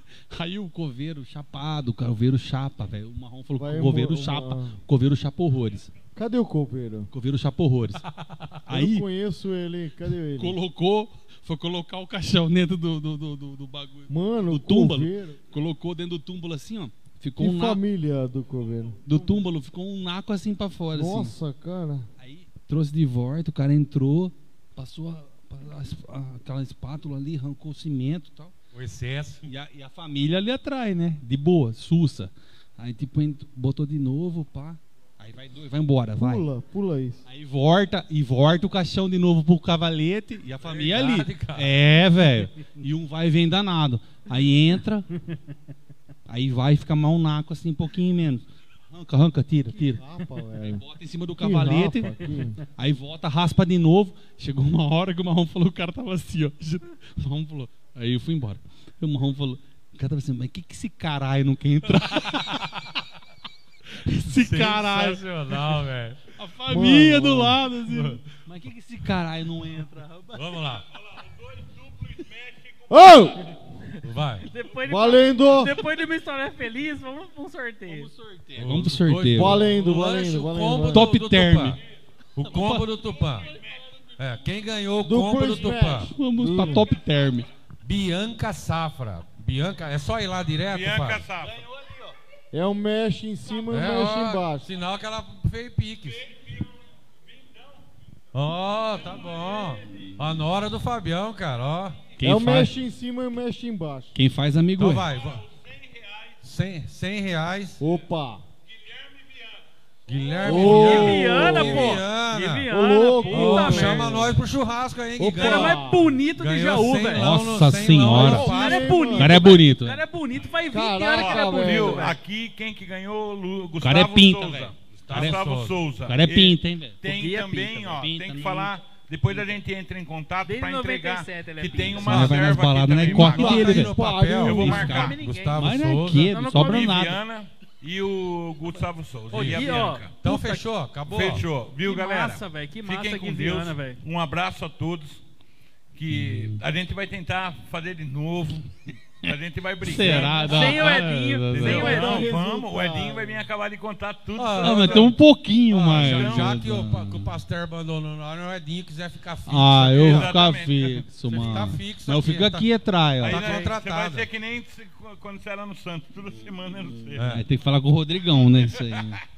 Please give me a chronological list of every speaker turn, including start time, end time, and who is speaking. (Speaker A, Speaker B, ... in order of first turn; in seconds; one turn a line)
Speaker A: 0.3-5.9
Speaker B: 3.6-4.8
Speaker B: 6.2-7.1
Speaker A: 7.1-8.1
Speaker A: 8.7-9.1
Speaker B: 8.7-10.6
Speaker A: 10.4-17.8
Speaker B: 14.1-15.4
Speaker B: 17.4-19.1
Speaker A: 19.1-21.3
Speaker B: 20.9-22.1
Speaker A: 22.2-28.5
Speaker C: 28.7-29.5
Speaker A: 29.5-36.5
Speaker B: 36.2-37.2
Speaker A: 37.3-45.1
Speaker C: 40.6-41.8
Speaker A: 46.3-50.0
Speaker B: 49.7-50.8
Speaker A: 50.6-62.8
Speaker B: 51.4-52.6
Speaker C: 62.0-62.9
Speaker A: 63.9-70.7
Speaker C: 64.3-66.3
Speaker B: 66.7-67.6
Speaker C: 67.9-68.2
Speaker C: 70.3-70.9
Speaker D: 71.0-73.3
Speaker B: 72.9-73.6
Speaker C: 74.0-74.5
Speaker E: 74.5-78.1
Speaker B: 74.8-75.8
Speaker A: 77.9-79.6
Speaker C: 78.6-81.8
Speaker B: 79.3-81.1
Speaker A: 80.9-81.8
Speaker C: 82.3-83.5
Speaker A: 82.5-82.9
Speaker C: 84.2-86.1
Speaker B: 85.0-86.9
Speaker A: 86.1-87.5
Speaker C: 87.8-91.2
Speaker D: 90.7-91.6
Speaker B: 92.5-94.7
Speaker C: 93.7-96.3
Speaker C: 98.3-102.1
Speaker A: 102.2-102.8
Speaker B: 102.2-104.2
Speaker A: 104.2-105.1
Speaker C: 104.8-105.5
Speaker D: 105.2-106.4
Speaker C: 106.4-107.8
Speaker B: 107.8-108.4
Speaker D: 108.7-109.6
Speaker C: 110.1-112.7
Speaker D: 110.2-110.8
Speaker B: 110.4-112.0
Speaker E: 110.4-114.2
Speaker B: 112.7-114.4
Speaker C: 113.3-119.0
Speaker B: 115.2-116.1
Speaker E: 115.4-117.3
Speaker A: 117.1-120.0
Speaker B: 118.1-119.6
Speaker E: 118.2-122.2
Speaker B: 120.7-122.1
Speaker D: 121.1-133.8
Speaker A: 123.8-125.4
Speaker C: 124.9-125.8
Speaker A: 126.0-128.7
Speaker E: 127.1-127.7
Speaker E: 130.4-132.5
Speaker A: 131.9-137.2
Speaker C: 133.1-136.3
Speaker B: 133.2-134.7
Speaker D: 134.4-135.2
Speaker E: 134.7-137.1
Speaker D: 136.6-140.1
Speaker C: 139.3-141.4
Speaker E: 139.3-140.6
Speaker D: 141.1-145.2
Speaker E: 141.8-144.0
Speaker D: 145.9-148.7
Speaker A: 146.1-146.6
Speaker D: 149.2-155.2
Speaker A: 149.8-152.0
Speaker E: 150.1-152.3
Speaker B: 151.5-153.4
Speaker C: 154.4-155.2
Speaker A: 154.6-157.4
Speaker C: 155.7-160.4
Speaker D: 155.9-156.6
Speaker A: 159.5-163.5
Speaker D: 159.9-161.8
Speaker C: 161.3-164.3
Speaker D: 163.2-167.4
Speaker C: 167.2-167.5
Speaker A: 167.2-169.2